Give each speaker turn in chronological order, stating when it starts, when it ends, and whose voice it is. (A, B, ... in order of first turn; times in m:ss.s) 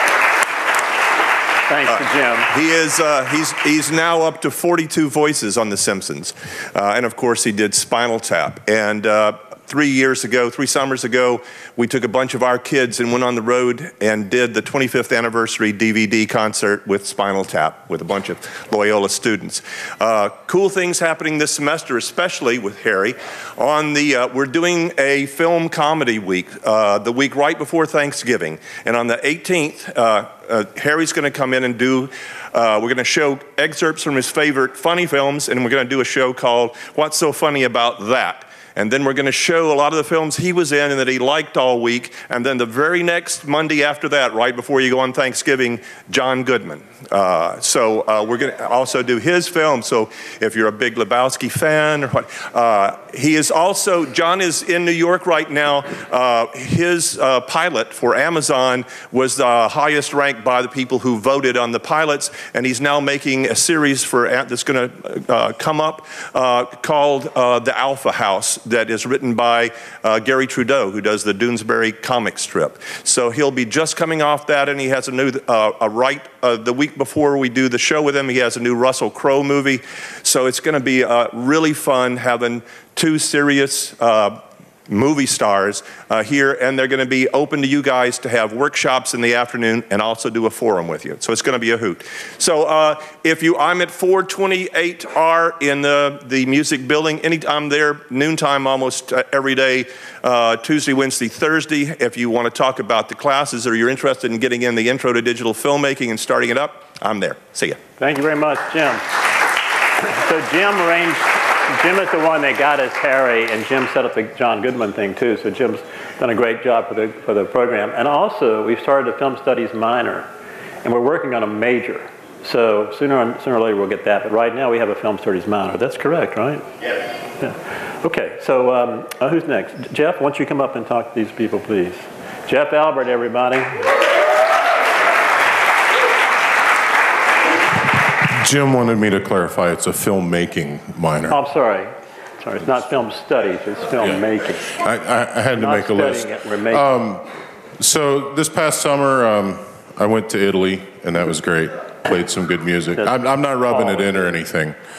0:01.7-0:02.5 A
0:01.9-1:47.8 B
1:48.0-1:49.0 A
1:50.0-2:00.3 A
2:00.8-2:06.7 A
2:07.4-2:13.8 A
2:18.4-2:21.4 C
2:21.3-2:24.7 A
2:24.8-2:27.2 C
2:25.6-2:26.9 A
2:27.8-2:34.8 C
2:33.7-2:34.1 A